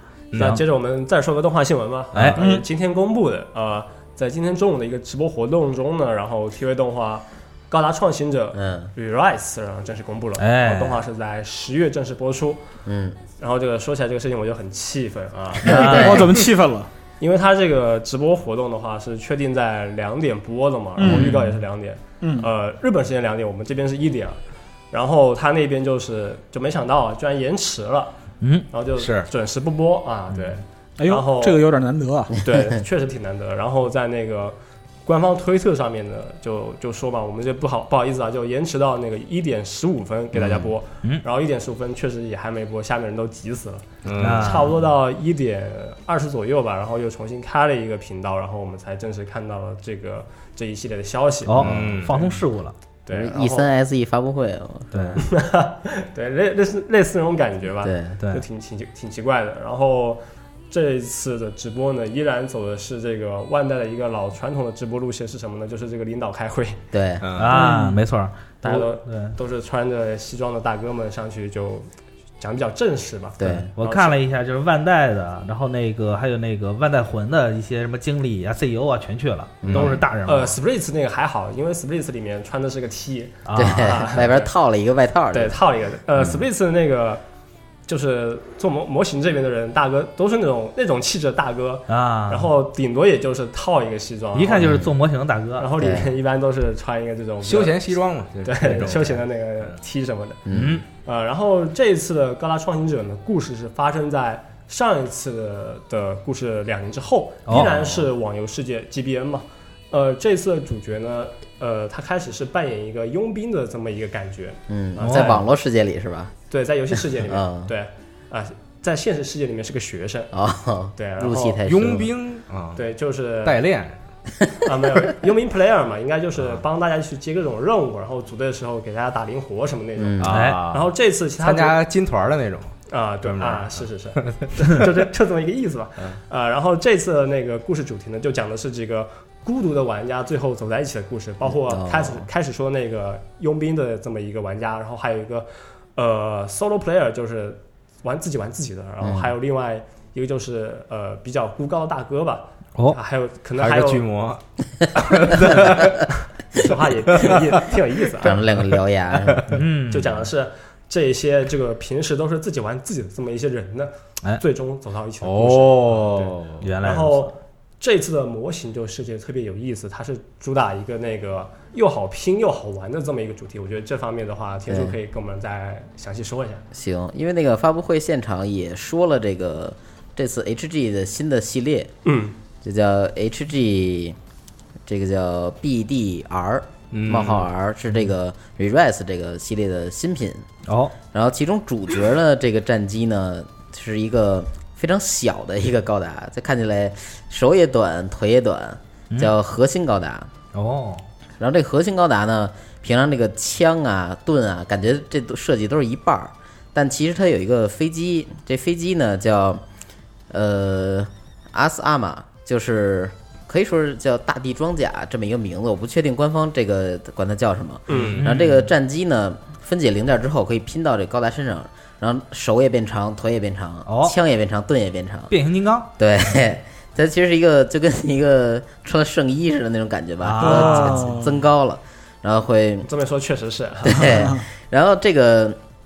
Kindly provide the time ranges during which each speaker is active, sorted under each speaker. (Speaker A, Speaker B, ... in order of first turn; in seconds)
Speaker A: 0.3-0.6, 29.0-29.3, 44.0-44.7, 51.6-52.2, 67.2-67.6, 97.4-99.8, 121.7-122.8, 123.4-124.0, 130.2-130.9, 131.4-132.7, 133.2-134.8, 153.6-154.4, 155.0-156.1, 157.1-157.6, 158.7-159.6, 165.2-166.7, 186.9-187.5, 217.9-218.3
Speaker B: 0.4-12.6, 13.3-16.4, 17.2-24.4, 24.9-28.1, 28.7-31.6, 32.4-52.3, 53.1-53.7, 55.2-66.8, 68.6-71.9, 72.4-74.2, 79.7-84.5, 85.3-87.2, 87.9-94.9, 95.6-100.4, 101.0-115.5, 116.5-120.3, 121.0-121.6, 122.8-123.6, 124.7-131.8, 132.9-154.1, 156.6-158.4, 159.9-176.6, 182.1-182.3, 217.9-218.2, 232.9-234.3
Speaker C: 0.4-0.6, 10.4-11.0, 21.0-21.6, 28.4-28.7, 44.2-44.7, 51.5-52.7, 54.9-55.2, 67.4-69.4, 73.8-80.6, 83.5-84.0, 91.9-92.5, 94.3-95.7, 100.5-100.8, 115.0-115.4, 130.3-130.6, 159.5-160.2, 166.6-167.3, 190.7-190.9, 200.5-201.0, 218.2-218.7, 223.9-224.2, 225.3-225.9, 230.2-231.1
Speaker D: 2.4-2.6, 15.6-16.9, 21.0-21.4, 22.2-22.5, 31.0-32.4, 67.5-68.0, 230.4-231.4, 233.9-234.5
Speaker E: 8.6-8.9, 12.9-13.2, 15.6-16.3, 40.3-40.7, 53.1-55.2, 57.8-58.2, 66.9-67.3, 73.4-73.7, 79.6-80.0, 83.5-85.6, 86.2-86.4, 94.6-94.9, 95.8-96.1, 100.5-100.8, 114.7-116.3, 117.3-117.7, 120.3-122.1, 130.0-130.3, 141.4-142.3, 149.0-149.3, 158.2-159.5, 174.7-175.0, 176.7-181.9, 182.6-184.2, 184.9-190.5, 191.1-200.3, 201.4-209.6, 210.3-225.3, 226.0-232.9, 233.8-235.6